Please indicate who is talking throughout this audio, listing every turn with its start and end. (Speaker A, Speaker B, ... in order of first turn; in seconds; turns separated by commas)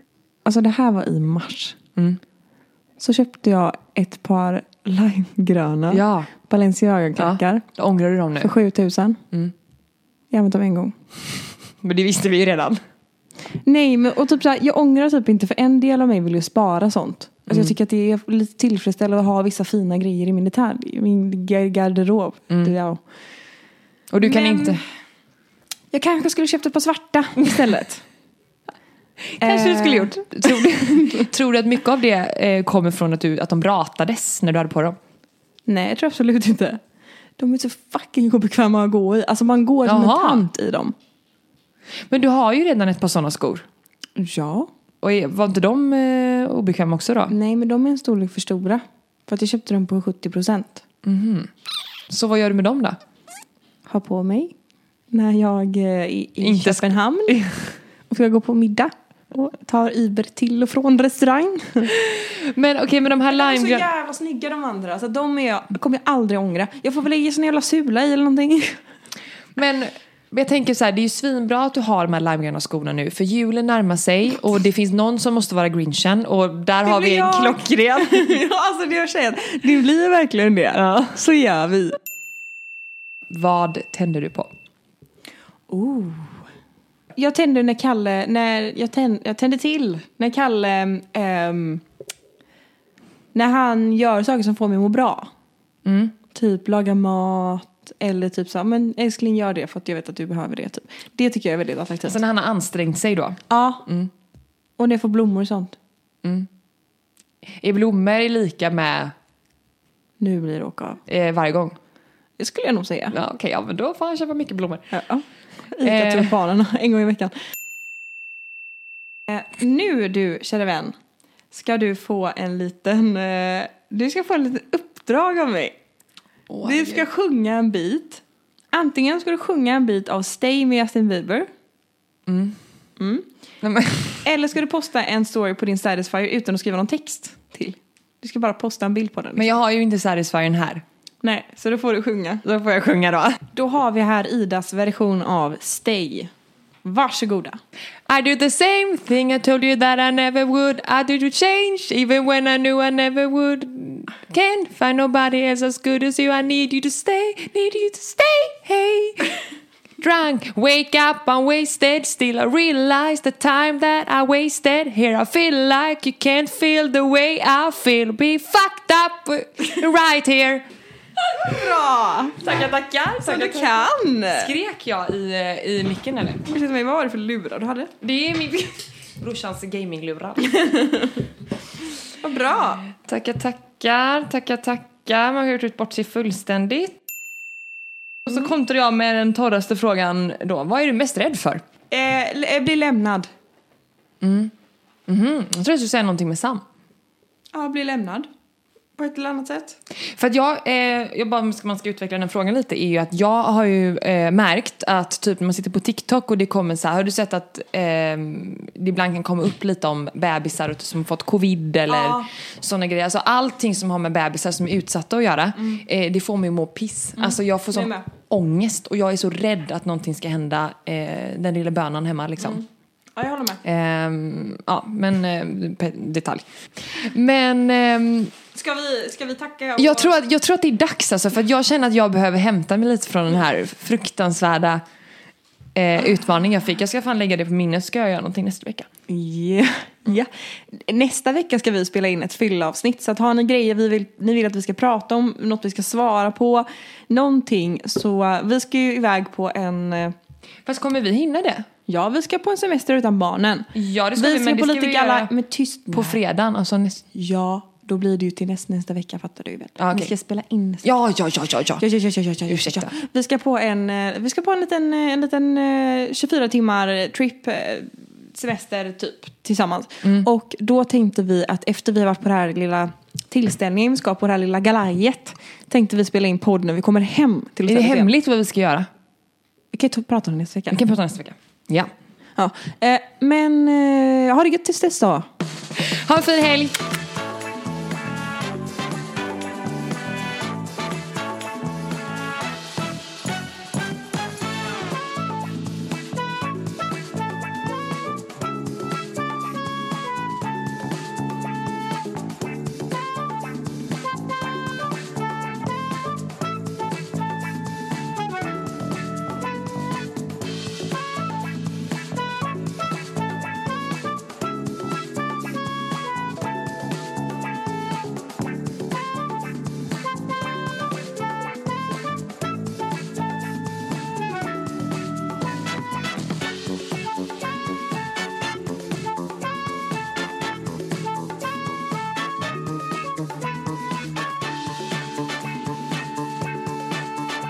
Speaker A: 0.4-1.8, Speaker A: 3.0-7.7, Speaker B: 5.9-6.3, Speaker B: 7.2-8.5, Speaker A: 8.4-9.2, Speaker A: 10.3-10.9, Speaker B: 11.8-12.8, Speaker A: 13.6-23.0, Speaker B: 24.1-24.8, Speaker A: 24.2-24.8, Speaker A: 25.9-28.0, Speaker B: 29.3-35.0, Speaker A: 29.4-31.3, Speaker A: 35.6-36.8, Speaker A: 37.4-40.9, Speaker B: 39.9-40.4, Speaker B: 42.1-43.6, Speaker A: 44.2-44.7, Speaker B: 45.0-47.3, Speaker A: 47.3-50.8, Speaker B: 51.0-51.5, Speaker B: 52.1-53.0, Speaker A: 53.9-54.5, Speaker A: 55.1-57.4, Speaker B: 56.4-57.7, Speaker A: 58.1-61.9, Speaker B: 61.9-63.9, Speaker A: 63.3-68.8, Speaker B: 69.5-78.4, Speaker A: 76.8-82.0, Speaker B: 80.7-81.2, Speaker B: 83.3-84.5, Speaker A: 85.7-86.3, Speaker A: 87.2-91.8, Speaker A: 93.3-95.3, Speaker B: 95.8-96.1, Speaker A: 96.3-102.2, Speaker B: 102.1-104.1, Speaker A: 103.5-103.8, Speaker A: 104.8-105.8, Speaker B: 106.2-106.5, Speaker B: 107.6-109.1, Speaker A: 110.2-111.0, Speaker B: 111.1-111.8, Speaker A: 112.4-113.2, Speaker B: 113.1-114.9, Speaker A: 114.9-117.3, Speaker B: 115.8-116.3, Speaker A: 119.3-121.0, Speaker A: 121.5-125.7, Speaker B: 126.5-127.0, Speaker A: 126.6-128.2, Speaker A: 128.7-131.5, Speaker B: 132.3-132.6, Speaker A: 133.0-133.3, Speaker B: 133.6-134.2, Speaker A: 134.2-139.5, Speaker B: 139.3-140.8, Speaker A: 141.2-142.4, Speaker B: 142.4-143.4, Speaker A: 143.5-146.3, Speaker A: 146.8-147.6, Speaker B: 148.1-159.4, Speaker B: 160.0-170.6, Speaker A: 171.3-172.4, Speaker B: 172.4-176.4, Speaker A: 173.2-174.5, Speaker A: 176.4-177.9, Speaker B: 178.0-180.5, Speaker A: 180.6-181.1, Speaker A: 182.2-182.8, Speaker B: 183.0-187.0, Speaker B: 188.2-191.6, Speaker A: 191.9-193.3, Speaker B: 194.2-194.5, Speaker B: 195.1-196.6, Speaker A: 197.5-198.3, Speaker A: 199.0-199.8, Speaker B: 200.0-222.6, Speaker A: 211.9-212.3, Speaker A: 217.2-218.1, Speaker A: 223.2-223.6, Speaker B: 223.6-228.3, Speaker A: 228.5-230.2, Speaker B: 229.8-234.8, Speaker B: 235.7-238.9, Speaker A: 239.1-250.1, Speaker B: 250.6-251.7, Speaker A: 251.9-256.2, Speaker B: 253.7-255.3, Speaker B: 255.9-257.0, Speaker A: 257.1-260.9, Speaker B: 259.8-260.1, Speaker B: 260.8-261.8, Speaker A: 261.8-278.1, Speaker B: 262.5-262.9, Speaker B: 277.6-278.9, Speaker A: 279.7-280.8, Speaker B: 280.7-281.9, Speaker A: 282.4-285.3, Speaker B: 285.7-286.8